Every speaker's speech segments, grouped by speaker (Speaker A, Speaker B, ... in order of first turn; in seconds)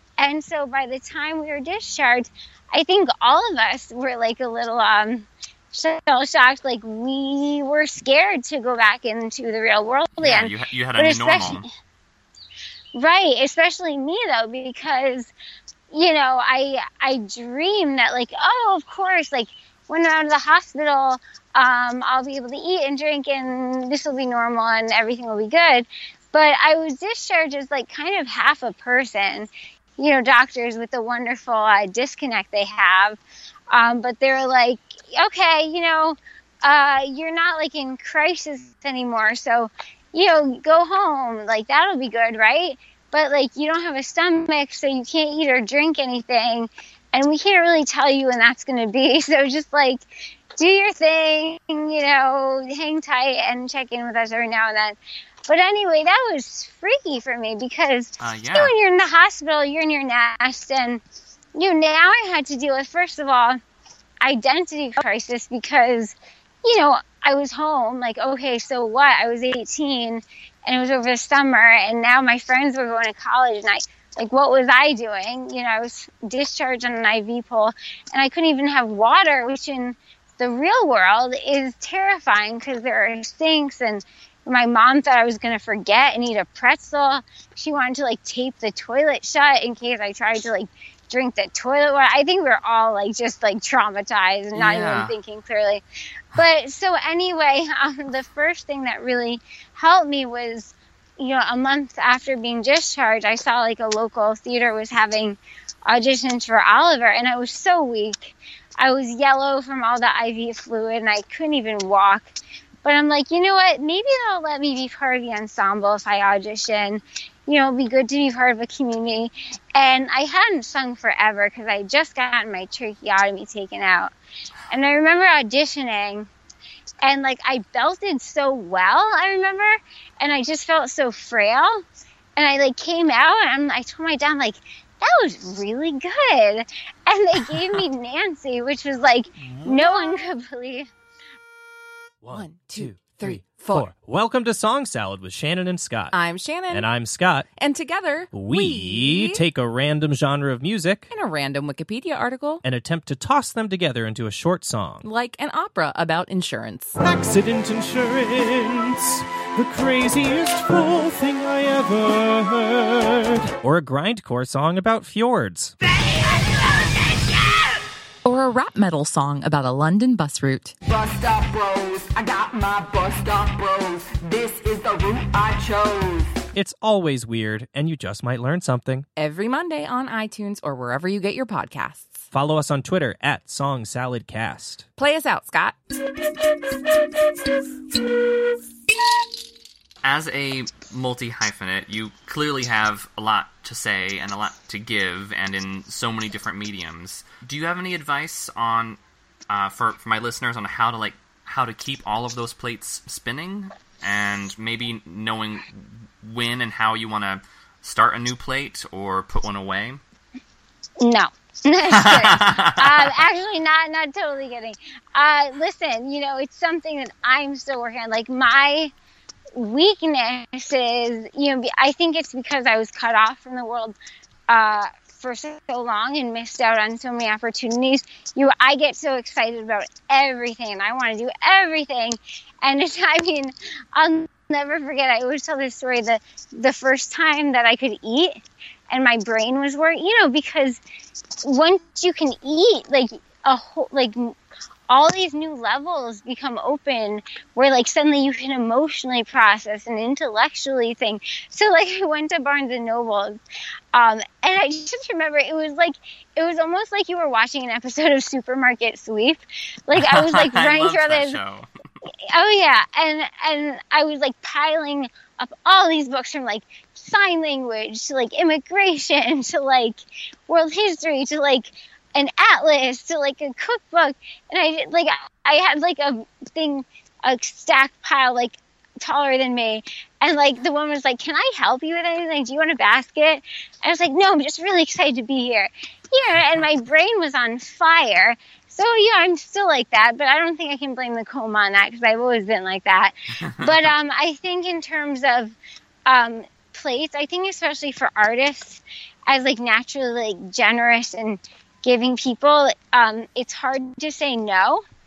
Speaker A: 0.2-11.7, 12.9-15.3, 15.9-33.2, 33.7-61.0, 61.6-63.6, 64.2-95.8, 96.3-112.3, 112.8-124.1, 124.7-126.3, 127.0-131.8, 132.4-140.9, 211.0-218.9, 219.6-224.0, 224.5-238.4, 238.9-240.8, 241.4-244.4, 244.9-253.4, 253.9-261.4, 262.3-295.6, 296.1-304.8
Speaker B: 10.2-11.7, 58.2-58.7, 94.5-95.2, 137.4-137.8, 190.0-199.0, 199.5-210.0, 211.9-213.1, 259.9-261.7
Speaker C: 139.6-139.9, 142.2-146.2, 146.7-147.5, 148.3-151.1, 152.6-155.1, 157.0-165.7, 176.6-179.1, 182.3-184.8
Speaker D: 142.3-143.9, 146.1-146.9, 147.6-149.4, 151.1-152.6, 155.0-157.0, 168.2-170.7, 179.2-182.3, 185.0-185.8
Speaker E: 165.9-167.7, 170.9-176.3